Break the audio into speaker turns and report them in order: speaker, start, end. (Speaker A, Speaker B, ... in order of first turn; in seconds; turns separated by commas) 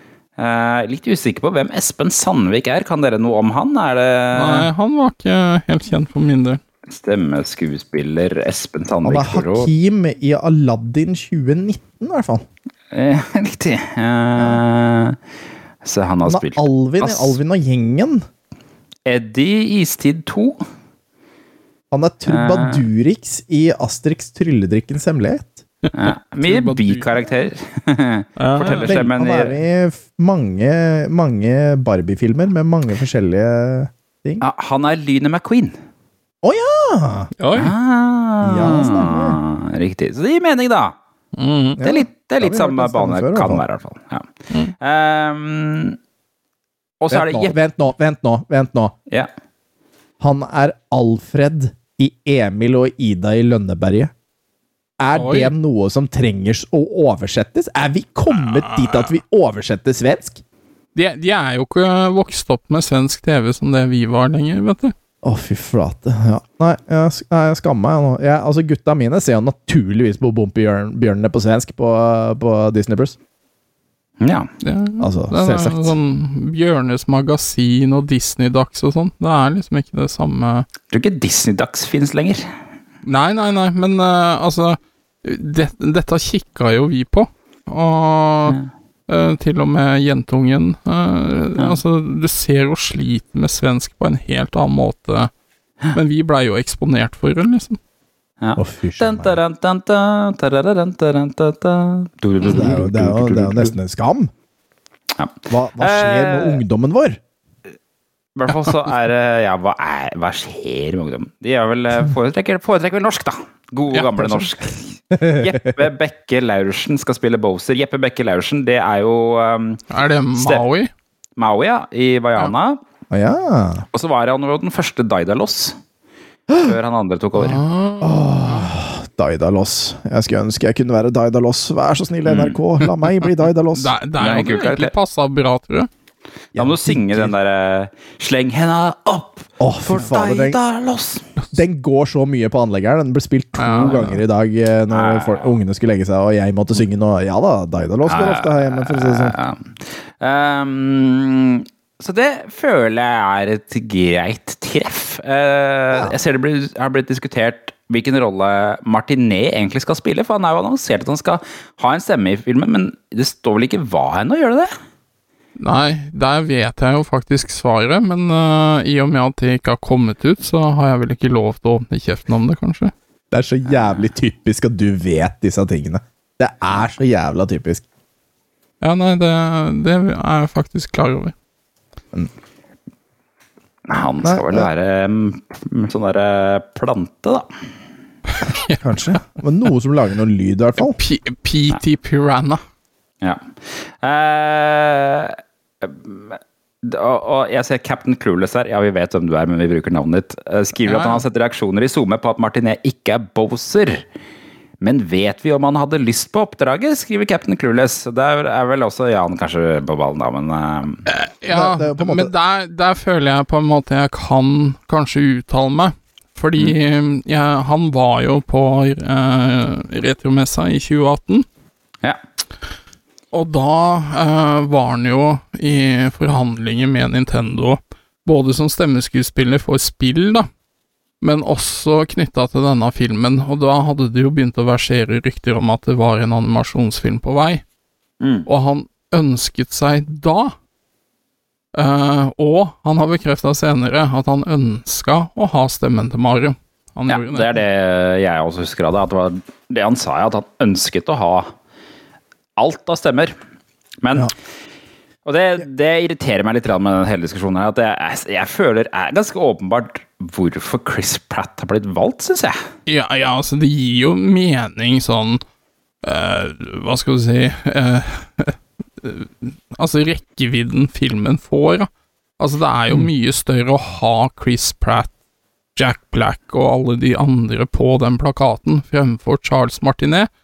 Speaker A: 0.4-4.7, Speaker B: 4.3-6.6, Speaker A: 6.9-9.7, Speaker C: 9.0-12.4, Speaker A: 12.9-15.2, Speaker C: 14.4-14.6, Speaker A: 15.8-17.4, Speaker C: 16.2-18.2, Speaker A: 19.1-20.6, Speaker C: 21.9-25.6, Speaker A: 22.3-22.8, Speaker B: 25.8-27.1, Speaker A: 25.9-29.5, Speaker B: 28.4-29.0, Speaker C: 28.8-34.4, Speaker A: 34.4-35.8, Speaker C: 36.4-37.3, Speaker B: 37.4-37.7, Speaker A: 37.5-40.9, Speaker C: 38.4-39.4, Speaker B: 41.4-41.8, Speaker C: 41.8-43.6, Speaker A: 41.8-44.3, Speaker A: 44.8-46.0, Speaker A: 47.0-47.5, Speaker C: 47.1-48.9, Speaker C: 50.2-54.1, Speaker C: 55.0-60.4, Speaker B: 55.1-55.5, Speaker B: 58.3-59.1, Speaker B: 60.9-64.9, Speaker C: 65.2-73.2, Speaker A: 74.2-74.5, Speaker B: 74.6-80.7, Speaker C: 75.0-75.9, Speaker A: 80.9-82.4, Speaker B: 83.0-95.3, Speaker B: 95.9-97.8, Speaker A: 98.4-103.8, Speaker C: 98.5-99.4, Speaker C: 102.4-104.3, Speaker A: 105.2-106.6, Speaker C: 105.5-107.2, Speaker A: 108.3-119.8, Speaker B: 113.9-114.4, Speaker C: 115.1-115.8, Speaker B: 119.9-120.9, Speaker A: 120.4-120.6, Speaker A: 121.4-122.8, Speaker C: 123.1-123.8, Speaker A: 123.9-125.7, Speaker A: 126.6-127.6, Speaker B: 127.4-128.7, Speaker C: 128.0-133.9, Speaker A: 132.3-132.6, Speaker B: 133.7-135.9, Speaker A: 134.2-134.9, Speaker C: 136.5-137.3, Speaker A: 136.6-141.2, Speaker C: 139.6-140.6, Speaker C: 141.5-149.3, Speaker B: 143.6-144.2, Speaker A: 144.9-145.5, Speaker A: 148.1-164.7, Speaker B: 165.6-172.9, Speaker C: 173.3-177.8, Speaker B: 178.8-181.3, Speaker A: 183.9-187.5, Speaker C: 184.2-184.7, Speaker C: 188.8-191.0, Speaker B: 190.8-192.6, Speaker A: 193.2-204.0, Speaker B: 200.8-201.2, Speaker A: 204.8-211.0, Speaker B: 211.1-221.4, Speaker C: 211.5-212.3, Speaker B: 223.3-230.5, Speaker B: 231.2-237.6, Speaker A: 238.2-238.5, Speaker B: 238.4-240.5, Speaker B: 241.7-247.6, Speaker A: 247.1-251.5, Speaker A: 252.6-253.3, Speaker A: 254.0-254.3, Speaker A: 255.2-262.6, Speaker B: 262.9-265.4, Speaker B: 266.0-271.9, Speaker B: 272.4-275.1, Speaker B: 275.8-280.3